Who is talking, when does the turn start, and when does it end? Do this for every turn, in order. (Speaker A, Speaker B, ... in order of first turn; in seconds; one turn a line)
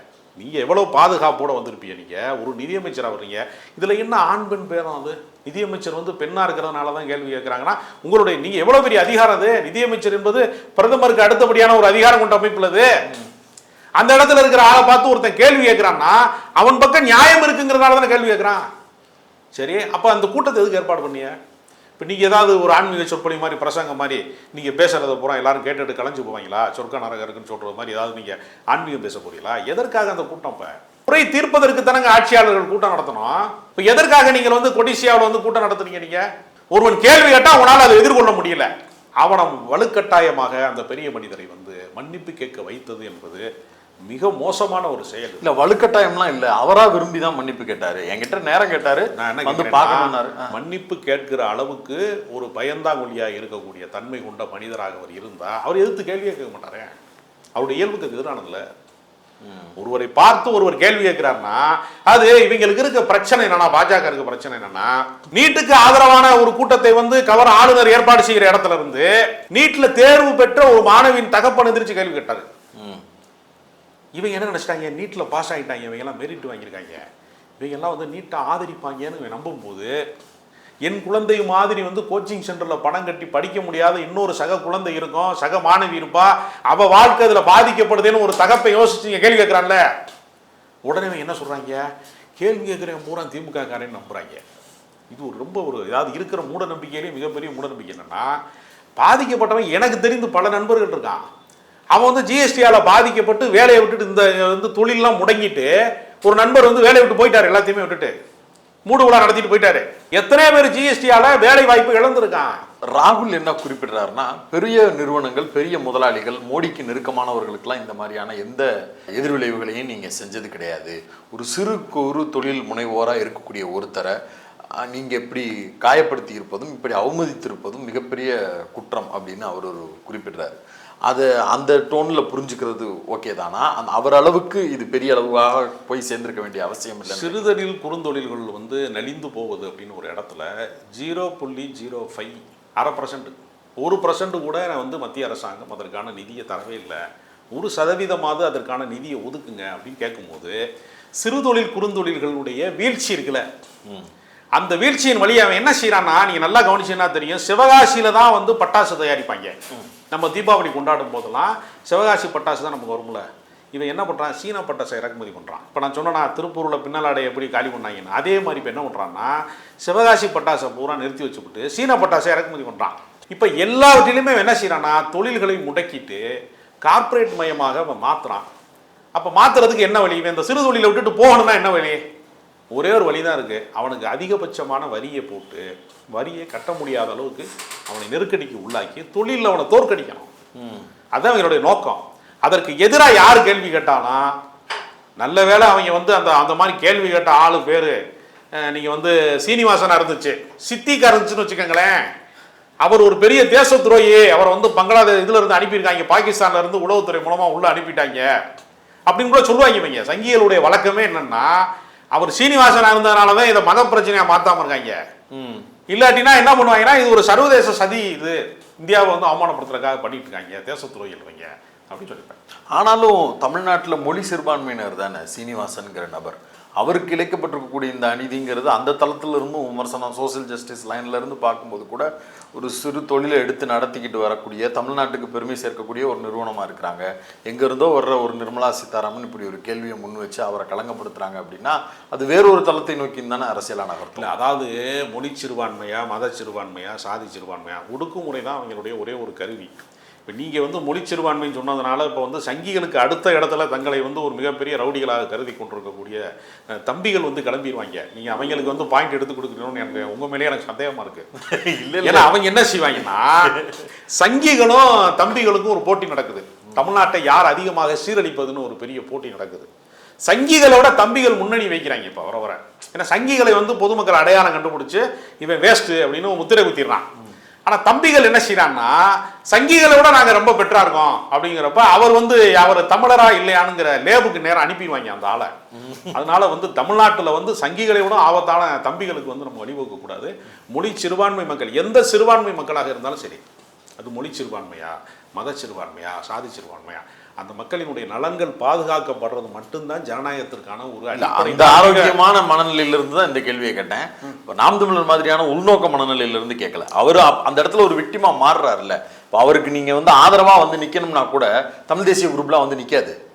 Speaker A: 0.4-12.9
Speaker A: 14.0-18.6
Speaker A: 19.6-21.3
Speaker A: 22.0-43.4
Speaker A: 44.1-45.5
Speaker B: 45.4-50.5
Speaker A: 49.1-56.9
Speaker A: 57.6-58.6
Speaker B: 59.4-59.7
Speaker A: 59.8-72.5
Speaker B: 72.8-73.0
Speaker A: 74.2-77.0
Speaker A: 77.6-79.9
Speaker A: 80.8-89.8
Speaker A: 90.9-91.8
Speaker A: 92.4-94.4
Speaker A: 95.1-98.3
Speaker A: 99.0-101.2
Speaker A: 101.9-105.7
Speaker A: 106.2-108.1
Speaker A: 108.8-112.6
Speaker B: 112.9-124.2
Speaker B: 124.8-130.5
Speaker B: 131.1-137.5
Speaker A: 137.1-147.0
Speaker A: 147.5-150.6
Speaker A: 151.2-153.4
Speaker A: 154.6-159.6
Speaker A: 160.1-176.2
Speaker A: 176.8-178.4
Speaker A: 179.2-182.0
Speaker A: 182.7-190.3
Speaker B: 190.6-190.9
Speaker A: 191.1-194.3
Speaker A: 195.2-198.0
Speaker A: 198.6-202.0
Speaker A: 202.8-208.3
Speaker A: 209.1-211.6
Speaker A: 212.1-215.0
Speaker B: 215.3-215.7
Speaker A: 215.9-222.4
Speaker B: 222.7-244.3
Speaker A: 244.2-256.2
Speaker A: 256.7-261.2
Speaker B: 261.4-262.3
Speaker A: 262.0-263.5
Speaker B: 262.9-263.8
Speaker A: 264.1-269.7
Speaker A: 270.3-277.1
Speaker A: 277.7-285.5
Speaker B: 285.7-286.2
Speaker A: 286.1-293.4
Speaker A: 294.0-302.1
Speaker B: 301.1-313.2